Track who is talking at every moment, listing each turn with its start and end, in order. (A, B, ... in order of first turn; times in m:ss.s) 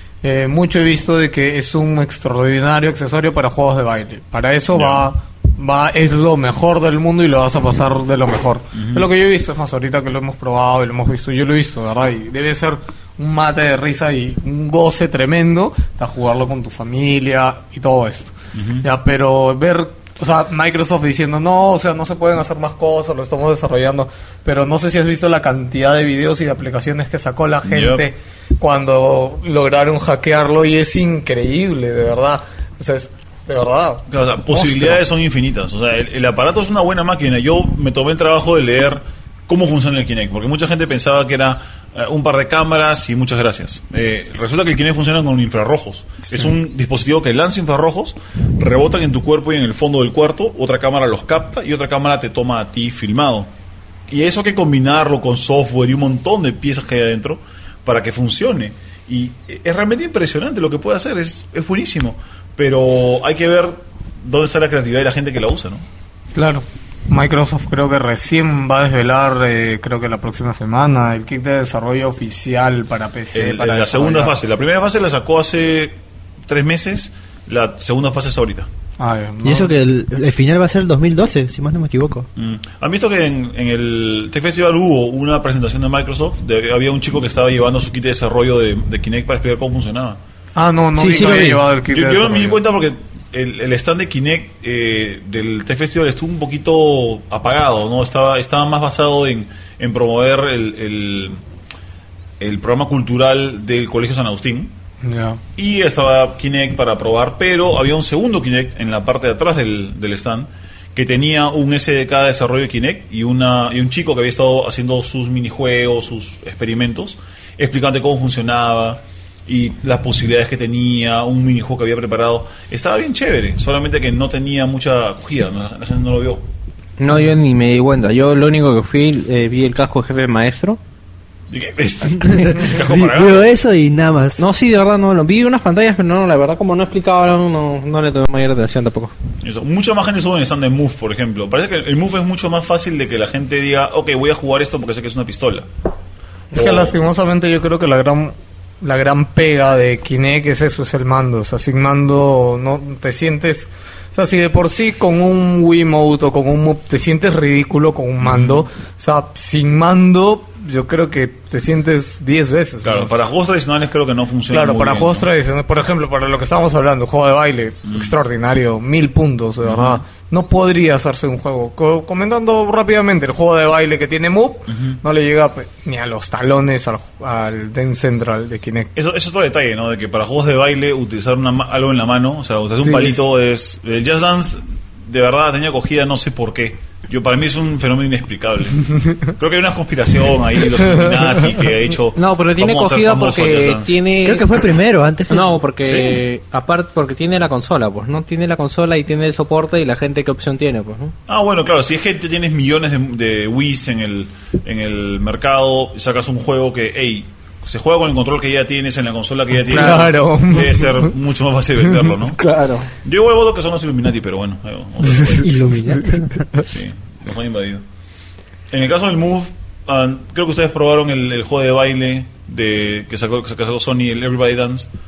0:00.2-0:35.0 A
0:04.7-0:05.1 B
0:08.7-0:09.1 B
0:18.5-0:18.8 B
0:27.6-0:28.0 B
0:34.1-0:53.5 B
0:54.1-1:05.8 B
1:06.3-1:14.4 A
1:13.3-1:16.0 B
1:16.5-1:18.7 B
1:19.0-1:19.7 A
1:19.4-1:22.3 C
1:22.4-1:30.2 B
1:30.6-1:32.6 A
1:30.9-1:31.6 C
1:31.2-1:41.4 B
1:42.4-1:44.7 B
1:45.0-1:45.4 A
1:45.6-2:06.4 B
2:07.0-2:10.8 D
2:11.5-2:13.5 B
2:12.3-2:14.4 C
2:14.4-2:19.1 D
2:19.4-2:25.7 B
2:26.5-2:26.9 B
2:26.5-2:43.1 A
2:38.2-2:38.6 B
2:42.8-2:45.3 B
2:44.5-2:58.9 A
2:47.8-2:48.1 B
2:49.6-2:50.0 B
2:54.7-2:55.0 B
2:58.9-3:14.0 B
3:02.8-3:03.2 A
3:12.2-3:14.6 D
3:14.2-3:15.5 C
3:15.3-3:21.1 D
3:15.8-3:16.2 B
3:21.3-3:32.4 B
3:29.7-3:30.0 D
3:29.7-3:31.1 A
3:32.4-3:32.9 D
3:33.0-3:35.7 B
3:35.0-3:36.6 A
3:35.3-3:36.4 C
3:36.6-3:37.8 B
3:38.7-3:44.9 B